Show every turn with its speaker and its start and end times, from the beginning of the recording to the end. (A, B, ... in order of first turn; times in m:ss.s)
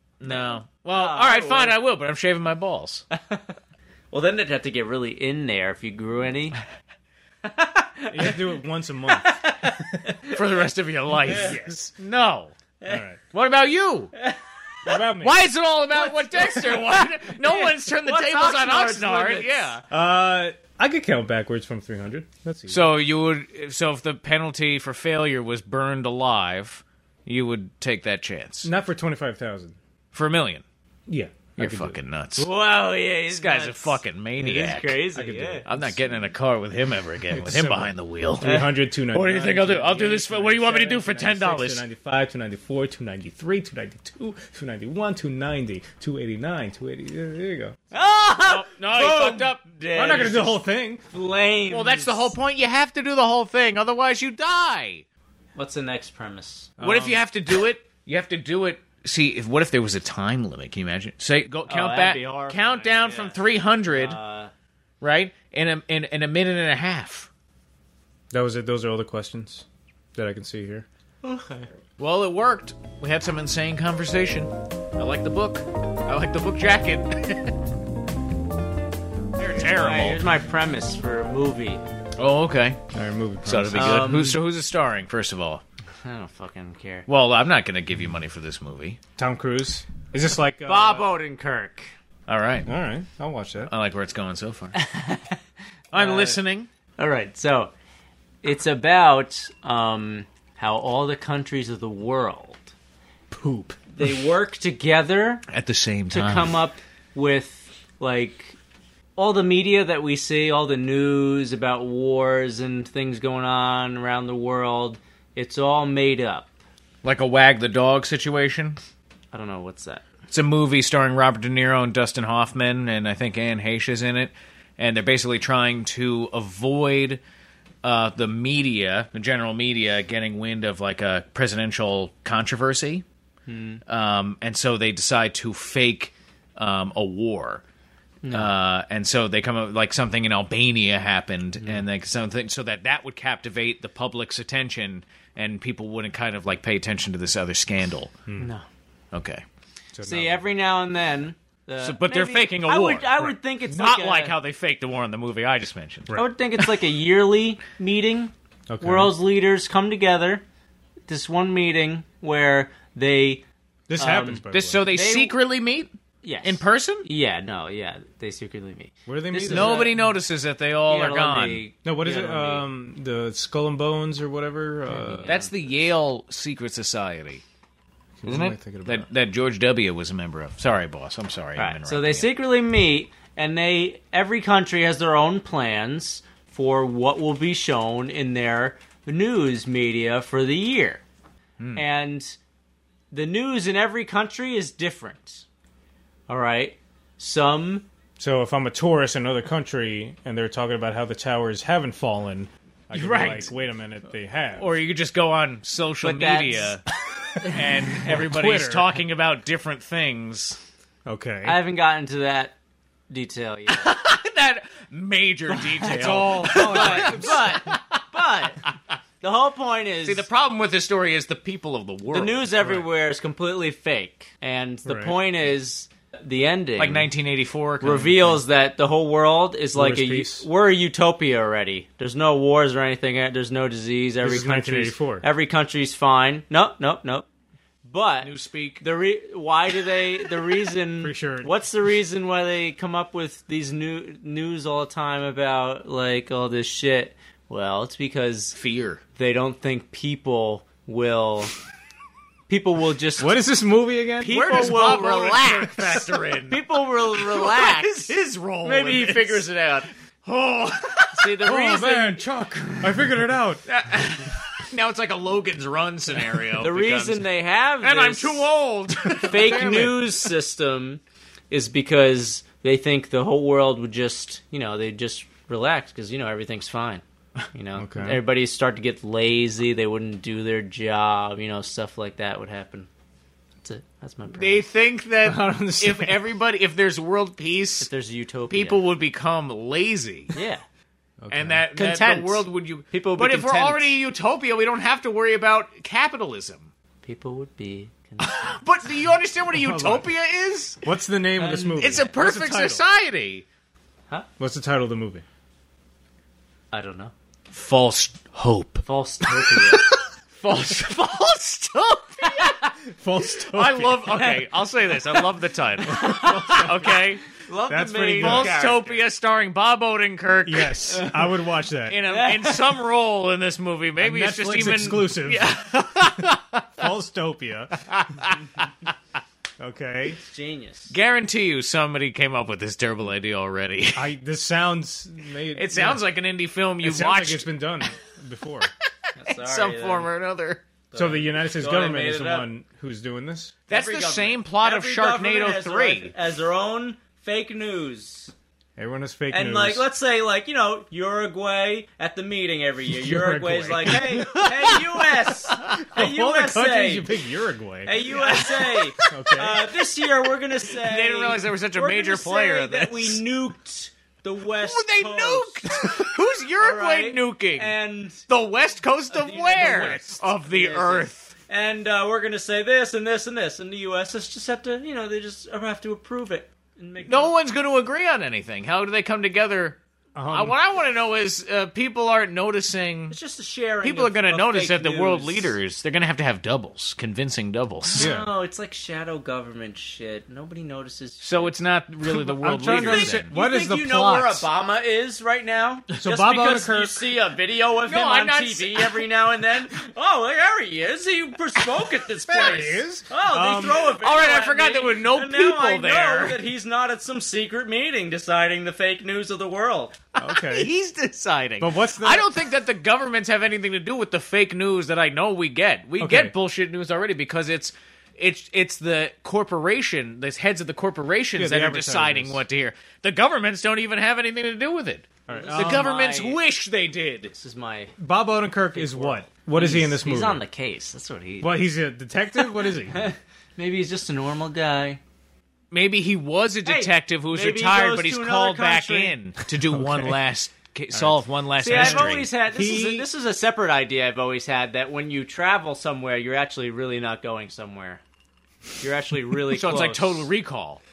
0:00.2-0:03.0 A
0:00.2-0:01.8 B
0:03.1-0:03.5 B
0:04.1-0:06.6 B
0:07.4-0:08.5 B
0:08.1-0:09.4 C
0:09.1-0:10.4 B
0:10.3-0:12.5 A
0:11.3-0:11.5 B
0:11.3-0:11.9 C
0:12.9-0:13.2 C
0:13.3-0:14.1 A
0:14.2-0:15.0 B
0:14.8-0:15.4 C
0:15.0-0:19.8 A
0:15.9-0:19.8 B
0:19.9-0:22.9 C
0:22.7-0:28.7 A
0:28.6-0:29.8 C
0:30.1-0:30.6 A
0:31.1-0:32.0 C
0:31.6-0:32.5 A
0:32.4-0:35.7 B
0:33.3-0:35.1 A
0:35.2-0:36.1 C
0:35.6-0:41.8 A
0:37.3-0:47.8 C
0:38.4-0:38.7 B
0:47.9-0:50.6 B
0:48.4-0:49.6 A
0:49.9-0:51.0 C
0:51.1-0:52.4 B
0:51.7-0:55.0 A
0:55.6-0:56.8 B
0:56.8-0:57.2 C
0:56.8-1:04.2 A
1:01.7-1:04.5 B
1:05.0-1:07.3 A
1:08.3-1:10.9 C
1:11.2-1:11.7 B
1:12.0-1:17.6 A
1:19.4-1:20.2 A
1:19.6-1:21.8 B
1:22.2-1:22.8 A
1:22.9-1:24.1 C
1:23.5-1:25.6 A
1:23.7-1:24.4 B
1:26.0-1:27.1 B
1:27.1-1:29.0 A
1:29.2-1:31.1 C
1:30.7-1:31.9 B
1:32.3-1:32.7 A
1:32.6-1:33.7 C
1:33.7-1:34.8 A
1:34.7-1:35.4 B
1:35.9-1:36.7 A
1:35.9-1:36.4 B
1:37.0-1:37.7 B
1:38.4-1:42.7 B
1:43.3-1:44.2 C
1:43.9-1:45.4 B
1:45.5-1:46.6 A
1:46.1-1:48.6 B
1:49.2-1:56.5 B
1:57.0-1:58.8 A
1:59.3-2:00.0 B
2:00.3-2:07.2 A
2:07.8-2:13.0 A
2:13.5-2:13.8 B
2:13.9-2:17.6 A
2:18.2-2:18.5 B
2:18.3-2:28.1 A
2:28.4-2:28.7 B
2:29.1-2:29.4 A
2:29.9-2:30.5 C
2:30.0-2:34.4 B
2:31.8-2:36.2 A
2:36.1-2:40.4 B
2:38.7-2:39.1 C
2:41.1-2:43.4 B
2:43.9-2:44.8 C
2:44.0-2:45.4 B
2:44.5-2:45.9 A
2:46.2-2:50.0 B
2:46.4-2:47.1 A
2:49.1-2:50.0 C
2:49.5-2:51.6 A
2:50.9-2:52.6 B
2:51.8-2:55.3 C
2:54.9-2:55.5 B
2:55.3-2:57.4 A
2:58.2-2:59.1 C
2:58.3-3:02.3 A
3:01.6-3:11.0 B
3:11.6-3:11.8 A
3:11.8-3:12.4 B
3:13.1-3:15.5 B
3:16.3-3:17.9 B
3:18.2-3:24.7 C
3:22.9-3:23.5 A
3:24.6-3:26.9 A
3:26.0-3:26.8 B
3:27.4-3:30.6 A
3:27.9-3:29.0 C
3:31.1-3:31.6 C
3:31.4-3:32.6 B
3:33.1-3:33.9 B
3:33.7-3:38.0 A
3:35.5-3:38.6 B
3:35.9-3:37.6 C
3:39.2-3:40.3 B
3:40.0-3:42.5 A
3:42.1-3:47.1 B
3:42.6-3:42.9 C
3:44.9-3:45.2 C
3:46.8-3:48.4 A
3:47.8-3:57.3 B
3:49.8-3:50.5 C
3:54.2-3:55.2 C
3:57.8-4:08.6 B
3:58.2-3:58.8 A
4:01.0-4:01.5 C
4:08.6-4:09.0 A
4:09.2-4:11.5 B
4:12.5-4:13.4 B
4:13.2-4:14.8 C
4:14.2-4:18.1 B
4:14.2-4:19.5 A
4:18.6-4:19.9 B
4:20.2-4:21.4 A
4:21.1-4:22.2 B
4:21.4-4:23.6 C
4:23.7-4:27.3 A
4:26.6-4:28.5 B
4:27.8-4:30.3 A
4:29.1-4:29.9 C
4:29.2-4:42.9 B
4:37.8-4:38.2 C
4:43.6-4:44.6 B
4:44.3-4:47.9 A
4:45.2-4:46.2 C
4:47.8-4:48.8 B
4:48.5-4:50.4 A
4:50.3-4:50.6 B
4:51.2-4:51.6 C
4:51.3-4:56.7 A
4:51.8-4:53.9 B
4:57.0-4:58.6 B
4:58.2-5:00.8 A
4:59.5-5:00.1 C
5:00.8-5:02.8 C
5:01.4-5:02.0 B
5:01.8-5:03.4 A
5:04.4-5:05.2 C
5:06.7-5:07.1 B
5:07.5-5:12.7 A
5:08.8-5:10.0 B
5:12.2-5:12.6 B
5:12.8-5:14.1 C
5:13.4-5:17.2 A
5:14.1-5:19.0 B
5:15.9-5:17.0 C
5:17.7-5:18.6 C
5:18.2-5:21.2 A
5:20.4-5:22.0 C
5:20.9-5:21.2 B
5:21.9-5:26.9 A
5:22.1-5:22.8 B
5:24.0-5:25.5 C
5:26.8-5:27.8 C
5:27.9-5:28.9 A
5:29.6-5:30.2 C
5:30.2-5:31.0 B
5:30.9-5:34.1 A
5:34.0-5:36.0 C
5:35.6-5:37.5 A
5:36.8-5:38.7 C
5:39.2-5:40.1 B
5:39.3-5:40.6 A
5:40.9-5:42.5 B
5:41.0-5:43.6 C
5:43.7-5:46.1 A
5:43.7-5:48.3 B
5:48.8-5:49.9 C
5:49.3-5:57.1 B
5:52.9-5:54.3 C
5:54.0-5:54.9 A
5:55.5-5:55.8 A
5:55.6-5:58.0 C
5:57.8-6:06.0 B
5:58.1-5:59.2 A
5:59.1-5:59.6 C
6:00.7-6:03.2 A
6:04.6-6:11.3 A
6:06.6-6:08.2 B
6:09.1-6:17.3 B
6:09.6-6:10.1 C
6:17.0-6:23.2 A
6:20.2-6:20.6 C
6:23.1-6:25.6 B
6:23.8-6:28.1 A
6:27.9-6:31.6 B
6:28.0-6:28.3 C
6:31.2-6:33.3 A
6:32.0-6:34.5 C
6:32.6-6:50.0 B
6:35.9-6:37.0 C
6:37.8-6:39.1 A
6:42.3-6:43.9 C
6:43.9-6:46.4 A
6:50.2-6:50.7 C
6:50.2-7:07.3 A
6:51.6-6:52.3 C
6:56.0-6:56.3 C
7:01.4-7:02.4 C
7:05.3-7:05.9 C
7:05.3-7:06.4 B
7:07.3-7:07.9 B
7:08.0-7:10.4 C
7:08.7-7:11.6 B
7:11.4-7:13.1 C
7:12.9-7:15.0 B
7:15.7-7:22.3 A
7:16.6-7:19.2 B
7:19.7-7:20.2 C
7:20.9-7:23.1 C
7:21.6-7:28.0 B
7:28.8-7:30.3 B
7:29.5-7:30.8 A